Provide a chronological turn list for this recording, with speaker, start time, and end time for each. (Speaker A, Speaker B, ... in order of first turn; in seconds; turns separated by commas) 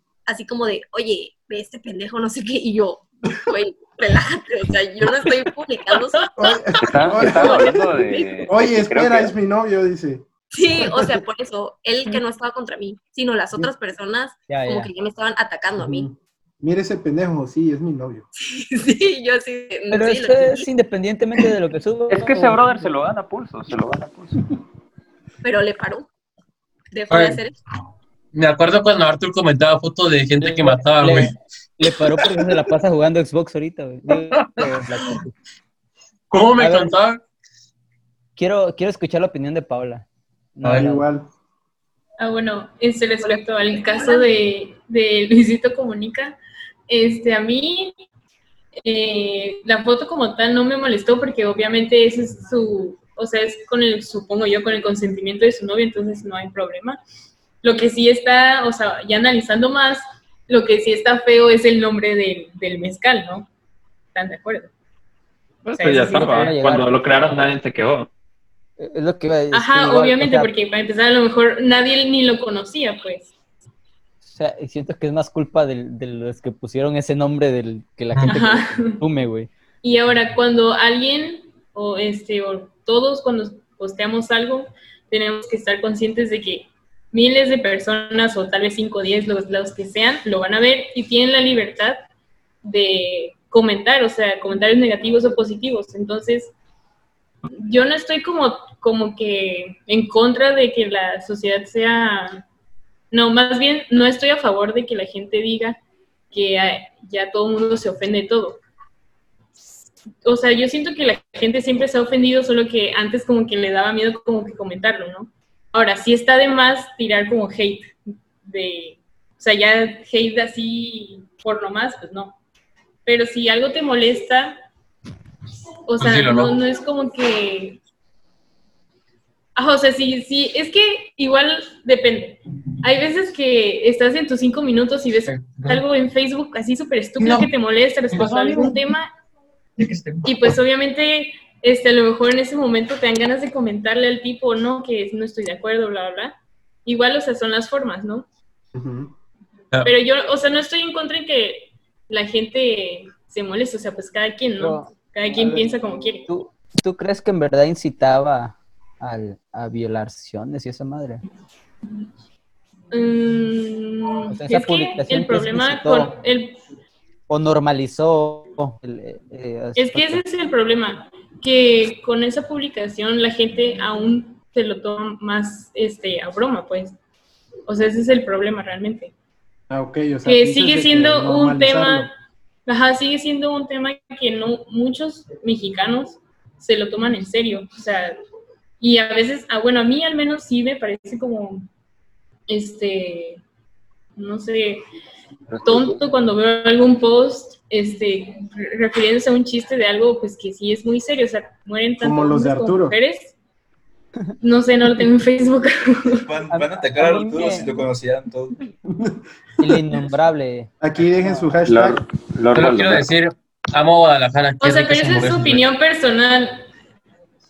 Speaker A: 0.3-6.5, Speaker B: 6.4-10.2, Speaker C: 6.8-9.3, Speaker A: 7.2-7.8, Speaker A: 10.5-16.1, Speaker B: 10.8-11.2, Speaker D: 14.5-14.9, Speaker B: 15.8-18.2, Speaker A: 18.4-20.6, Speaker D: 19.9-22.8, Speaker C: 22.1-24.4, Speaker A: 25.4-26.1, Speaker A: 26.9-27.5, Speaker E: 27.1-27.4, Speaker E: 28.3-31.4, Speaker D: 30.4-35.3, Speaker E: 34.3-34.7, Speaker E: 36.3-37.2, Speaker D: 36.6-36.9, Speaker D: 38.4-41.0, Speaker E: 40.6-40.9, Speaker B: 40.7-41.3, Speaker F: 42.2-46.4, Speaker A: 43.2-44.2, Speaker F: 46.9-47.9, Speaker F: 48.8-57.0, Speaker F: 57.6-63.5, Speaker F: 64.1-64.7, Speaker G: 65.6-68.1, Speaker F: 65.7-66.5, Speaker D: 65.9-67.2, Speaker D: 68.8-70.5, Speaker F: 69.5-73.3, Speaker D: 74.2-79.5, Speaker F: 78.2-79.0, Speaker F: 79.8-92.1, Speaker F: 92.6-96.5, Speaker F: 97.5-102.4, Speaker F: 103.1-105.8, Speaker F: 106.3-108.6, Speaker F: 110.2-122.4, Speaker F: 123.0-124.6, Speaker F: 125.9-127.8, Speaker E: 126.0-126.6, Speaker F: 129.6-139.1, Speaker E: 135.3-135.8, Speaker E: 137.2-137.5, Speaker E: 138.1-138.8, Speaker E: 139.8-140.5, Speaker F: 140.2-148.3, Speaker B: 148.7-149.1, Speaker F: 149.8-156.2, Speaker D: 154.6-155.6, Speaker D: 156.3-161.2, Speaker F: 162.9-166.6, Speaker D: 164.3-166.1, Speaker D: 167.3-170.2, Speaker F: 169.8-177.0, Speaker F: 177.7-179.1, Speaker B: 179.7-182.1, Speaker F: 180.2-182.1, Speaker F: 182.7-188.2, Speaker F: 188.8-191.7, Speaker F: 192.5-193.4, Speaker F: 194.2-194.8, Speaker C: 195.5-196.0, Speaker F: 195.6-203.3, Speaker B: 202.0-202.9, Speaker F: 204.4-206.3, Speaker H: 206.2-208.6, Speaker D: 206.5-207.9, Speaker D: 209.6-211.6, Speaker B: 210.8-212.0, Speaker C: 211.7-213.1, Speaker E: 212.5-215.6, Speaker F: 214.6-216.6